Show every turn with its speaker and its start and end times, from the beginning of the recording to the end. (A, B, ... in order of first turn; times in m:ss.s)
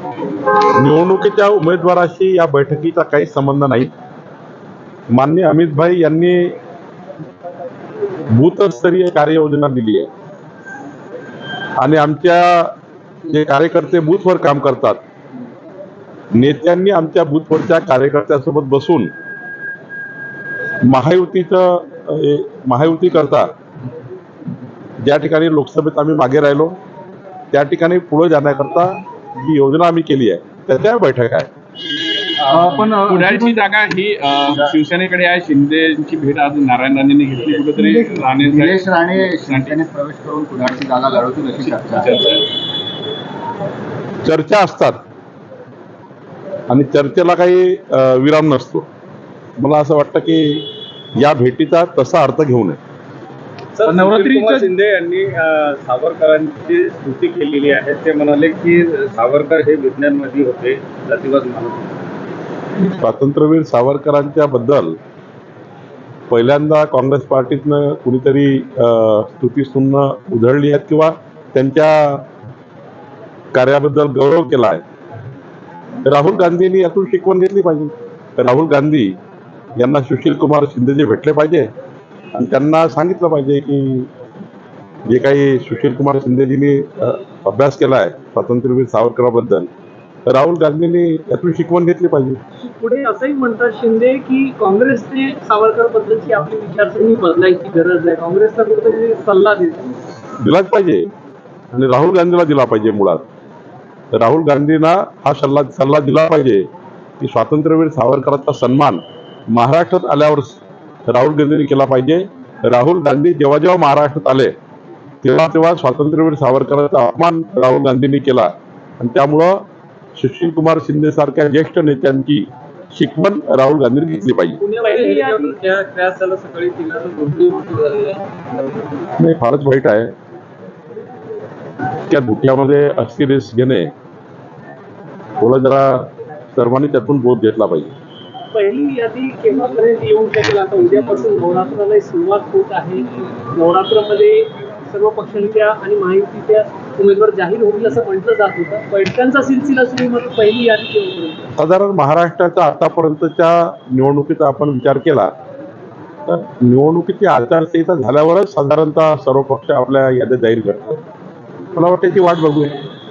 0:00.7-0:03.9 A
0:05.1-0:06.6 A
0:08.3-0:10.1 A
0:11.8-0:12.8 A
0:13.3-0:15.0 A
0:16.3-0:19.1 A
0:20.8-0:23.5 A
0:25.0-0:26.8 A
0:27.5-0:31.5 A
0:32.4-0:39.8 B
0:32.5-0:33.5 C
0:34.5-0:34.7 C
0:37.7-0:42.4 C
0:41.8-0:42.4 B
0:44.2-0:45.0 A
0:46.7-0:48.8 A
0:49.6-0:52.8 A
0:53.8-1:01.9 D
0:53.8-0:54.7 B
1:02.8-1:05.0 A
1:06.3-1:12.2 A
1:13.5-1:14.8 A
1:16.0-1:19.2 A
1:19.8-1:21.7 A
1:22.3-1:24.1 A
1:25.0-1:29.7 A
1:30.2-1:32.4 A
1:32.6-1:40.0 E
1:40.4-1:41.1 A
1:41.7-1:43.2 A
1:44.1-1:46.6 A
1:47.2-1:54.5 A
1:55.2-1:59.6 A
2:00.2-2:04.6 A
2:04.6-2:05.6 E
2:04.8-2:08.5 D
2:09.2-2:10.1 A
2:12.1-2:13.9 A
2:15.4-2:17.9 A
2:18.5-2:31.5 E
2:31.6-2:35.3 A
2:36.3-2:41.0 A
2:41.7-2:42.9 A